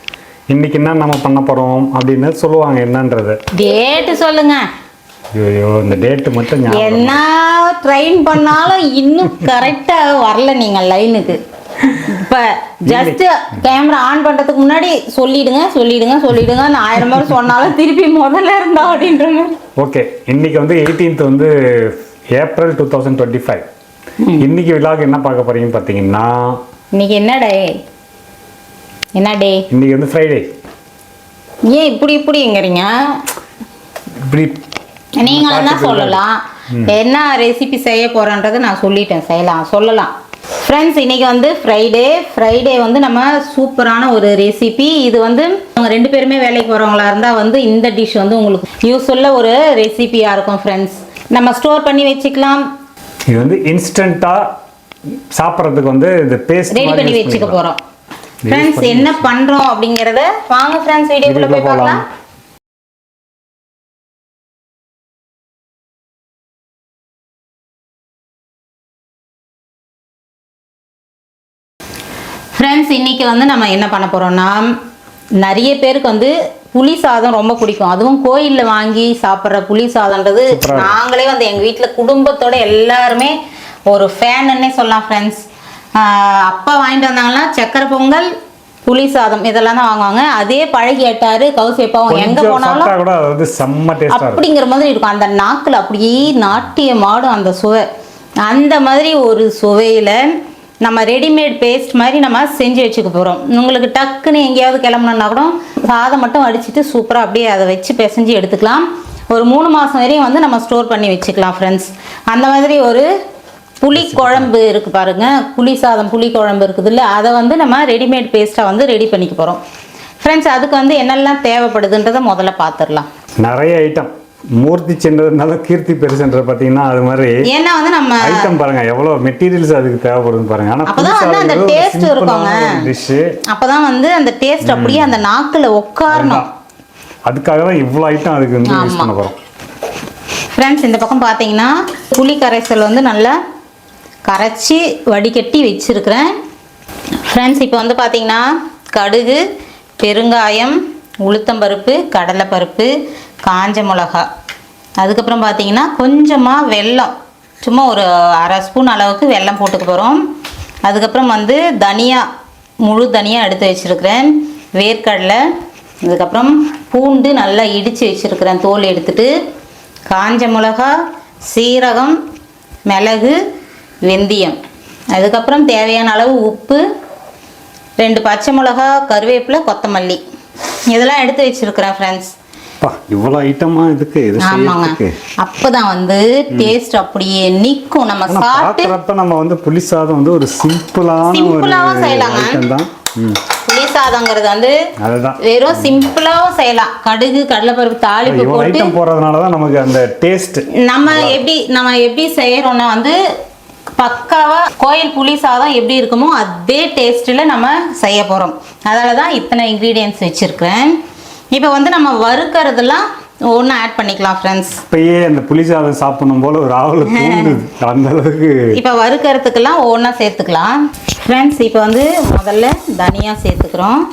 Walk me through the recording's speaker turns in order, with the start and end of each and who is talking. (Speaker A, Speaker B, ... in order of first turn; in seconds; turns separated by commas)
Speaker A: 0.5-3.4, Speaker B: 3.5-4.7, Speaker A: 5.3-7.2, Speaker B: 6.7-11.4, Speaker B: 12.0-19.6, Speaker A: 12.9-13.2, Speaker A: 19.8-23.6, Speaker B: 24.2-24.5, Speaker A: 24.4-26.6, Speaker B: 26.9-27.8, Speaker B: 29.2-29.6, Speaker A: 29.7-30.5, Speaker B: 31.7-32.9, Speaker A: 34.2-34.6, Speaker B: 35.2-40.1, Speaker A: 35.2-36.2, Speaker B: 40.6-52.6, Speaker A: 53.3-54.5, Speaker A: 55.3-57.6, Speaker B: 56.7-57.8, Speaker A: 58.4-59.3, Speaker B: 58.5-62.0, Speaker A: 61.2-62.0, Speaker B: 72.5-74.7, Speaker B: 75.4-83.3, Speaker A: 80.5-81.0, Speaker B: 83.9-85.4, Speaker B: 86.0-88.3, Speaker B: 88.9-92.9, Speaker A: 92.1-94.5, Speaker B: 94.1-97.8, Speaker B: 98.5-100.2, Speaker B: 100.8-113.1, Speaker B: 113.8-119.6, Speaker A: 113.9-114.5, Speaker B: 120.2-123.1, Speaker A: 123.4-127.4, Speaker B: 127.5-128.5, Speaker A: 128.2-133.3, Speaker B: 130.9-132.9, Speaker B: 133.5-136.5, Speaker A: 134.6-135.1, Speaker A: 136.1-136.5, Speaker A: 137.3-139.4, Speaker B: 138.7-139.1, Speaker B: 140.6-143.4, Speaker B: 144.3-146.3, Speaker B: 147.3-149.4, Speaker B: 150.0-152.9, Speaker B: 153.4-154.3, Speaker B: 155.0-160.2, Speaker B: 160.9-162.3, Speaker B: 162.8-165.4, Speaker B: 166.0-169.3, Speaker B: 170.1-170.9, Speaker B: 171.5-172.2, Speaker B: 172.9-173.4, Speaker B: 174.1-174.6, Speaker B: 175.1-176.8, Speaker B: 178.0-180.2, Speaker B: 180.9-182.3, Speaker A: 182.8-185.2, Speaker B: 184.4-188.9, Speaker A: 188.3-193.4, Speaker B: 191.3-192.6, Speaker B: 193.7-194.7, Speaker A: 195.0-195.4, Speaker B: 195.4-198.9, Speaker A: 198.2-201.4, Speaker B: 200.8-203.2, Speaker B: 204.0-210.9, Speaker B: 211.5-214.8, Speaker A: 214.9-218.7, Speaker B: 217.1-217.6, Speaker B: 218.7-224.0